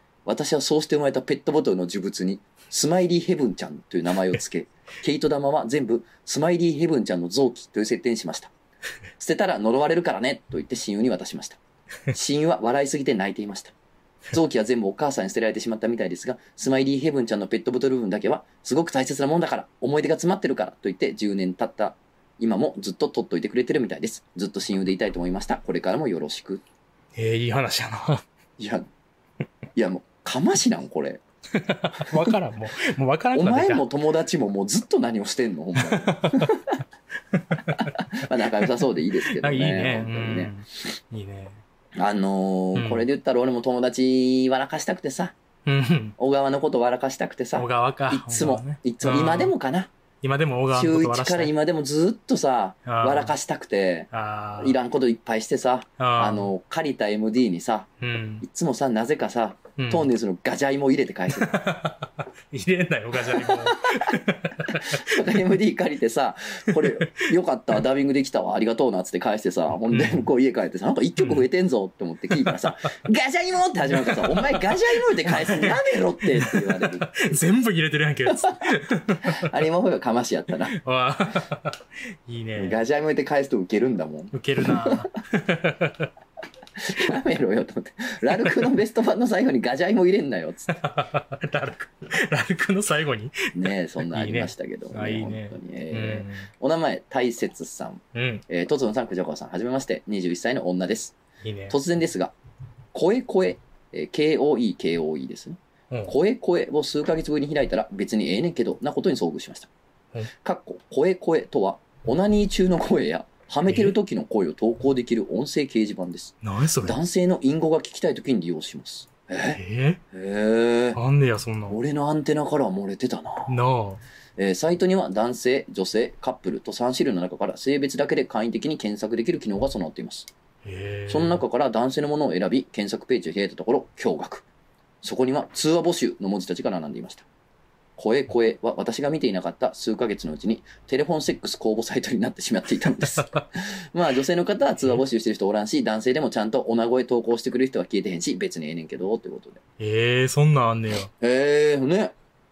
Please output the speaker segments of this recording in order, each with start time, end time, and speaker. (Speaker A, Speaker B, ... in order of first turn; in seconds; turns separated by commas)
Speaker A: 0.2-8.5, Speaker A: 9.2-13.7, Speaker A: 14.3-26.6, Speaker B: 27.1-28.2, Speaker A: 28.6-28.9, Speaker A: 29.7-31.2, Speaker B: 31.5-33.9, Speaker A: 31.9-32.4, Speaker A: 33.3-36.8, Speaker B: 35.8-36.5, Speaker B: 37.3-41.6, Speaker A: 37.7-40.5, Speaker A: 42.0-45.3, Speaker B: 42.7-43.0, Speaker B: 45.6-46.1, Speaker A: 46.2-49.9, Speaker B: 47.5-49.5, Speaker B: 50.2-51.5, Speaker A: 50.7-57.9, Speaker B: 52.9-53.3, Speaker B: 54.1-54.8, Speaker B: 56.0-56.5, Speaker B: 58.0-58.4, Speaker A: 58.4-61.7, Speaker B: 59.8-60.1, Speaker B: 61.3-65.0, Speaker A: 63.3-77.4, Speaker B: 66.7-67.2, Speaker B: 69.9-70.2, Speaker B: 71.2-71.4, Speaker B: 72.3-72.7, Speaker B: 73.9-79.5, Speaker A: 79.2-80.8, Speaker B: 80.7-82.8, Speaker A: 82.5-85.0, Speaker B: 84.3-86.1, Speaker A: 86.8-90.7, Speaker B: 90.7-96.5, Speaker A: 93.5-101.2, Speaker B: 98.1-98.4, Speaker B: 101.4-101.8, Speaker A: 101.7-102.3, Speaker A: 102.9-109.7, Speaker A: 110.4-119.6, Speaker B: 113.7-114.0, Speaker B: 116.4-117.0, Speaker B: 119.5-120.0, Speaker A: 120.1-121.0, Speaker B: 120.9-121.8, Speaker A: 121.7-123.5, Speaker B: 123.5-124.0, Speaker A: 124.4-130.3, Speaker B: 130.6-131.4, Speaker A: 131.1-134.4, Speaker A: 135.0-137.2, Speaker A: 138.0-149.6, Speaker B: 149.8-151.1, Speaker A: 151.2-152.1